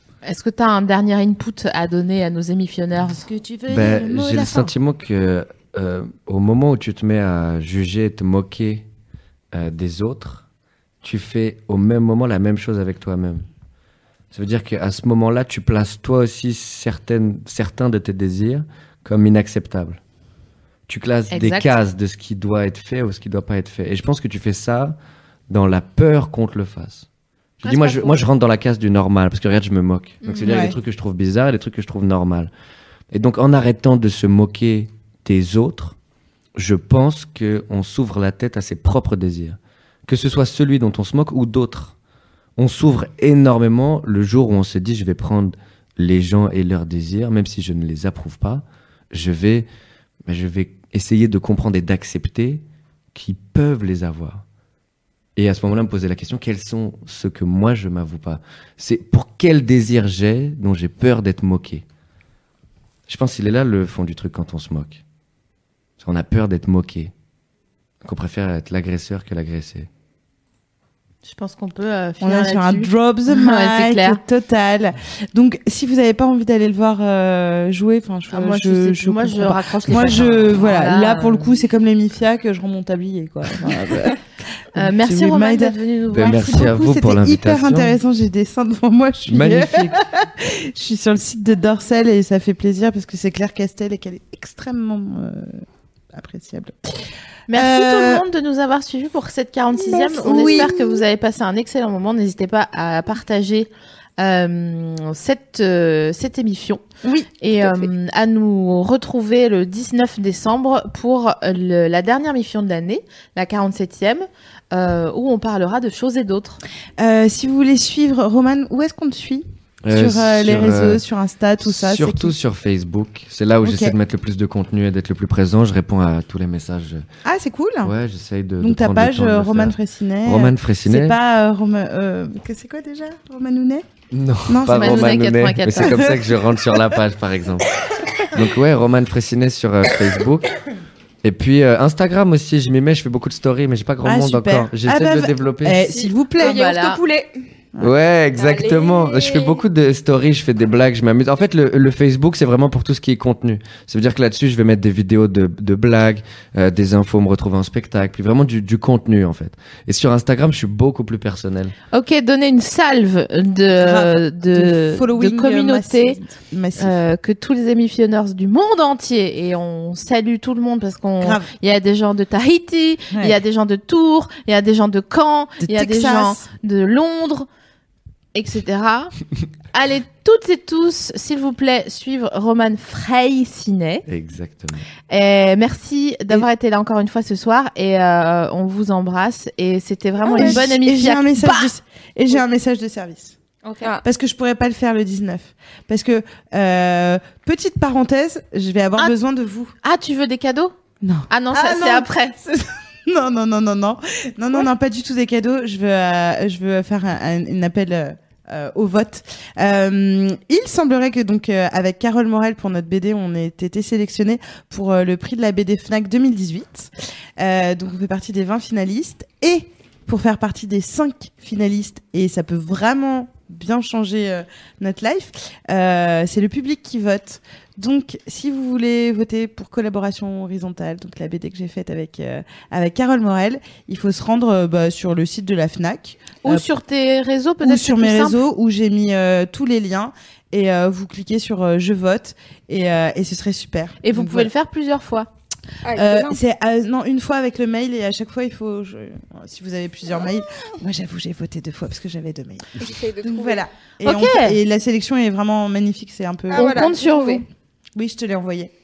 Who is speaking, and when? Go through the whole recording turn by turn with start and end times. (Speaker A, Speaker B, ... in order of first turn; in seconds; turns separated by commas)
Speaker A: 0.2-3.2, Speaker B: 3.0-4.7, Speaker C: 3.7-8.8, Speaker C: 9.5-10.4, Speaker C: 11.0-13.4, Speaker C: 14.3-20.0, Speaker C: 20.9-25.0, Speaker A: 21.3-21.7, Speaker C: 25.5-27.1, Speaker C: 27.6-32.5, Speaker A: 27.6-28.2, Speaker A: 30.2-30.6, Speaker B: 30.4-30.8, Speaker C: 33.1-36.0, Speaker C: 36.5-41.9, Speaker C: 42.6-49.7, Speaker C: 50.3-52.6, Speaker C: 53.1-54.4, Speaker C: 55.4-61.8, Speaker C: 63.1-65.0, Speaker C: 66.0-67.1, Speaker C: 68.0-69.9, Speaker A: 71.2-74.2, Speaker B: 72.2-85.8, Speaker A: 78.3-81.6, Speaker A: 84.7-86.7, Speaker C: 86.1-88.0, Speaker B: 86.3-97.0, Speaker C: 89.3-90.0, Speaker A: 97.5-116.6, Speaker B: 97.5-98.2, Speaker B: 99.8-101.0, Speaker D: 100.2-100.7, Speaker D: 107.6-107.8, Speaker B: 117.0-122.3, Speaker C: 119.8-121.0, Speaker C: 121.6-127.0, Speaker B: 123.6-123.9, Speaker B: 127.2-127.9, Speaker C: 127.8-131.2, Speaker B: 128.6-133.8, Speaker C: 134.1-137.8, Speaker B: 134.5-135.2, Speaker A: 134.7-136.2, Speaker B: 135.8-136.2, Speaker C: 138.3-140.5, Speaker C: 141.2-145.9, Speaker B: 144.0-146.6, Speaker D: 145.9-147.3, Speaker A: 146.4-147.0, Speaker C: 147.8-161.7, Speaker D: 148.3-149.6, Speaker A: 161.9-166.2, Speaker B: 163.8-166.9, Speaker A: 166.8-177.5, Speaker B: 171.2-171.5, Speaker B: 175.6-176.4, Speaker A: 178.3-179.1, Speaker A: 179.7-184.0, Speaker C: 184.1-184.9, Speaker A: 185.1-191.7, Speaker B: 190.2-193.3, Speaker A: 193.6-193.9, Speaker B: 194.0-199.7, Speaker A: 199.8-200.7, Speaker B: 201.0-236.7, Speaker A: 201.3-202.4, Speaker A: 236.4-238.4, Speaker B: 237.6-244.5, Speaker A: 244.0-245.3, Speaker D: 245.8-246.4, Speaker B: 245.9-257.1, Speaker D: 252.8-253.6, Speaker A: 254.0-254.6, Speaker D: 256.5-257.4, Speaker A: 256.5-257.4, Speaker B: 257.9-258.7